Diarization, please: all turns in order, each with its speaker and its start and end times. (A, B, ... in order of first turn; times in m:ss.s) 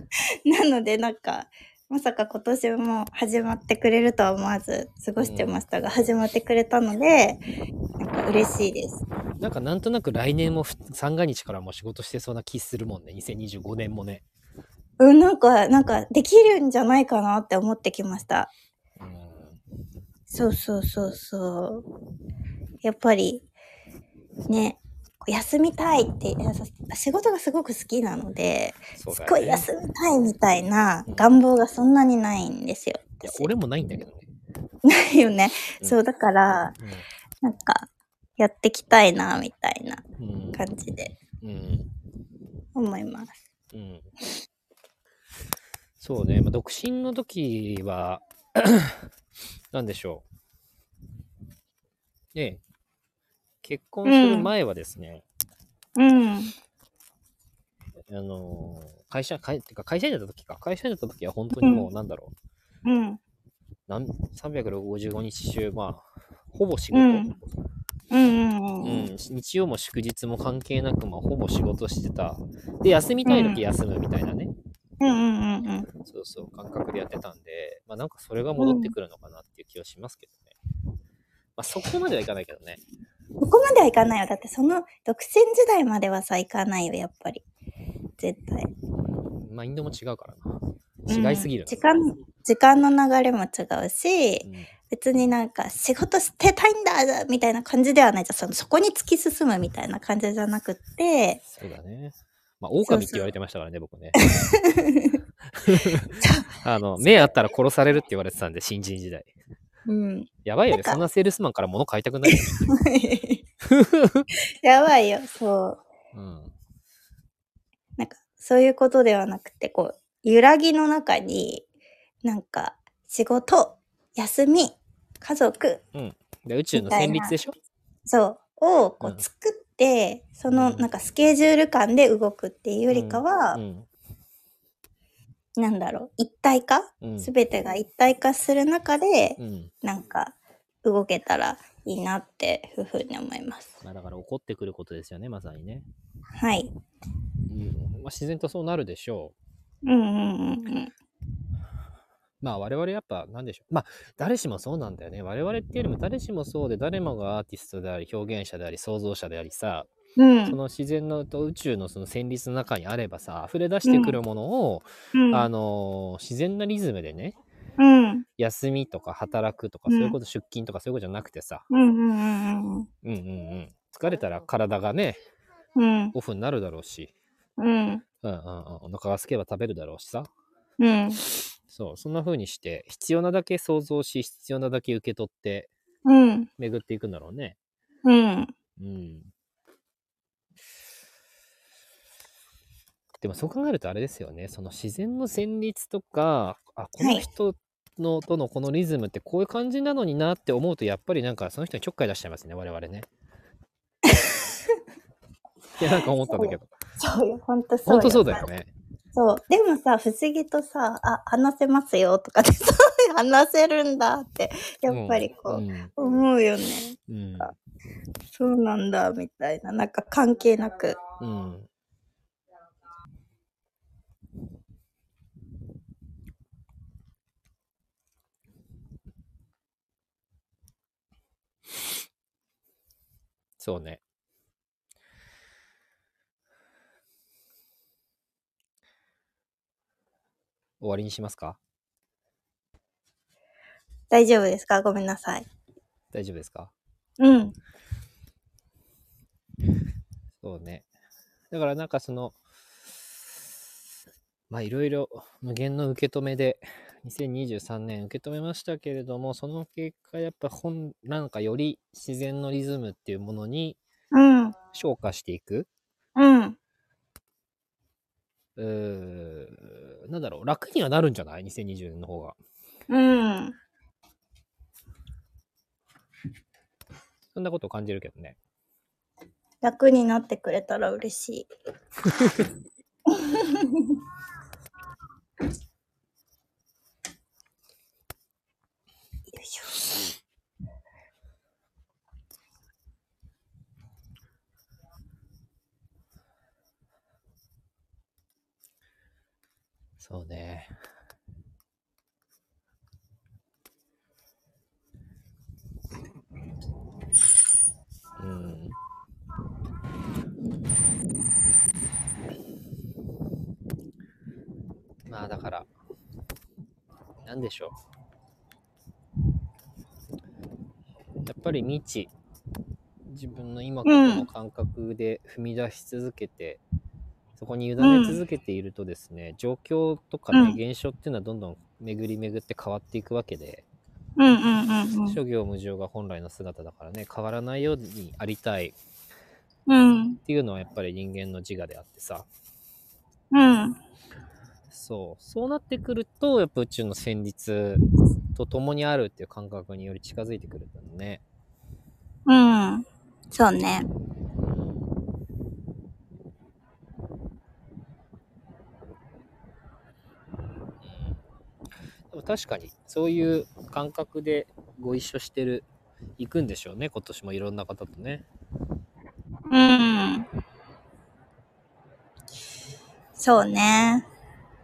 0:00.4-0:07.4 A
0:05.2-0:05.6 B
0:08.0-0:09.0 A
0:09.4-0:14.2 B
0:15.0-0:18.5 A
0:19.0-0:19.6 B
0:20.3-0:21.8 A
0:22.8-0:23.4 A
0:24.5-0:33.5 A
0:29.0-0:29.7 B
0:31.1-0:31.3 B
0:33.2-0:34.2 B
0:34.8-0:36.7 A
0:36.8-0:37.0 B
0:37.4-0:40.0 A
0:40.2-0:40.6 B
0:40.6-0:41.1 A
0:41.4-0:41.9 B
0:42.7-0:43.4 A
0:43.7-0:44.1 B
0:46.0-0:49.1 B
0:49.7-0:50.2 B
0:52.3-0:52.6 B
0:53.6-0:55.2 B
0:54.0-0:54.5 A
0:56.0-0:56.5 A
0:58.1-1:02.3 B
1:01.6-1:01.9 A
1:02.8-1:03.2 A
1:03.9-1:07.3 B
1:06.9-1:07.4 A
1:08.1-1:09.1 A
1:08.8-1:14.5 B
1:13.2-1:13.6 A
1:15.0-1:15.9 A
1:16.1-1:20.5 B
1:18.6-1:18.9 A
1:21.6-1:22.8 B
1:23.4-1:27.4 A
1:28.2-1:28.7 A
1:29.4-1:30.5 B
1:31.1-1:31.9 B
1:31.1-1:41.4 A
1:34.4-1:34.7 B
1:41.5-1:44.2 B
1:42.9-1:43.2 A
1:44.2-1:45.2 A
1:45.5-1:49.3 B
1:46.1-1:47.3 A
1:49.9-1:51.0 A
1:50.4-1:52.6 B
1:52.3-1:53.4 A
1:53.6-1:54.3 B
1:54.6-1:55.8 A
1:56.1-1:56.5 B
1:58.0-2:01.6 A
2:02.2-2:05.8 A
2:05.9-2:07.6 B
2:06.8-2:07.3 A
2:08.1-2:13.6 A
2:09.0-2:09.2 B
2:10.5-2:10.9 B
2:12.9-2:13.9 B
2:15.6-2:23.8 A
2:17.0-2:17.3 B
2:19.4-2:19.7 B
2:23.8-2:25.9 B
2:26.4-2:26.7 A
2:27.5-2:29.4 B
2:29.8-2:30.9 A
2:32.4-2:39.9 B
2:40.2-2:40.6 A
2:40.4-2:47.4 B
2:43.9-2:44.2 A
2:45.1-2:45.5 A
2:47.8-2:48.2 A
2:48.4-2:51.6 B
2:49.9-2:50.2 A
2:51.7-2:52.9 A
2:53.0-2:55.2 B
2:55.8-2:56.1 A
2:56.1-2:57.1 B
2:57.6-2:58.0 A
2:58.2-3:00.3 B
3:00.8-3:01.2 A
3:01.7-3:05.7 B
3:06.0-3:06.5 A
3:06.6-3:07.6 B
3:08.0-3:08.5 A
3:08.8-3:09.3 B
3:13.2-3:23.1 B
3:17.0-3:17.2 A
3:24.0-3:24.8 A
3:25.8-3:26.7 B
3:26.3-3:28.4 A
3:27.9-3:28.7 B
3:29.1-3:37.5 A
3:34.9-3:35.9 B
3:37.1-3:37.6 B
3:38.3-3:41.0 A
3:41.2-3:41.7 B
3:53.6-3:54.0 B
4:00.8-4:01.6 B
4:04.1-4:05.4 A
4:06.1-4:06.7 B
4:07.2-4:07.6 A
4:10.4-4:10.9 B
4:11.5-4:12.4 B
4:14.5-4:23.8 B
4:24.1-4:24.6 A
4:24.7-4:25.7 B
4:26.2-4:26.6 A
4:28.6-4:32.4 B
4:32.9-4:33.6 A
4:37.3-4:38.4 B
4:39.6-4:41.5 A
4:43.1-4:44.0 A
4:49.3-4:49.9 A
5:00.0-5:00.7 B
5:08.2-5:08.8 B
5:15.0-5:15.7 B
5:17.2-5:17.7 B
5:21.2-5:22.1 B
5:23.0-5:26.6 B
5:23.8-5:24.2 A
5:27.4-5:33.6 B
5:27.8-5:28.2 A
5:30.3-5:30.6 A
5:34.2-5:35.2 A
5:35.1-5:38.7 B
5:39.7-5:40.2 A
5:40.2-5:42.3 B
5:43.3-5:43.8 A
5:44.7-5:51.2 B
5:52.2-5:53.9 A
5:54.4-5:54.9 B
6:00.8-6:01.2 B
6:02.1-6:05.7 B
6:06.2-6:08.2 B
6:09.5-6:10.3 A
6:13.2-6:14.1 A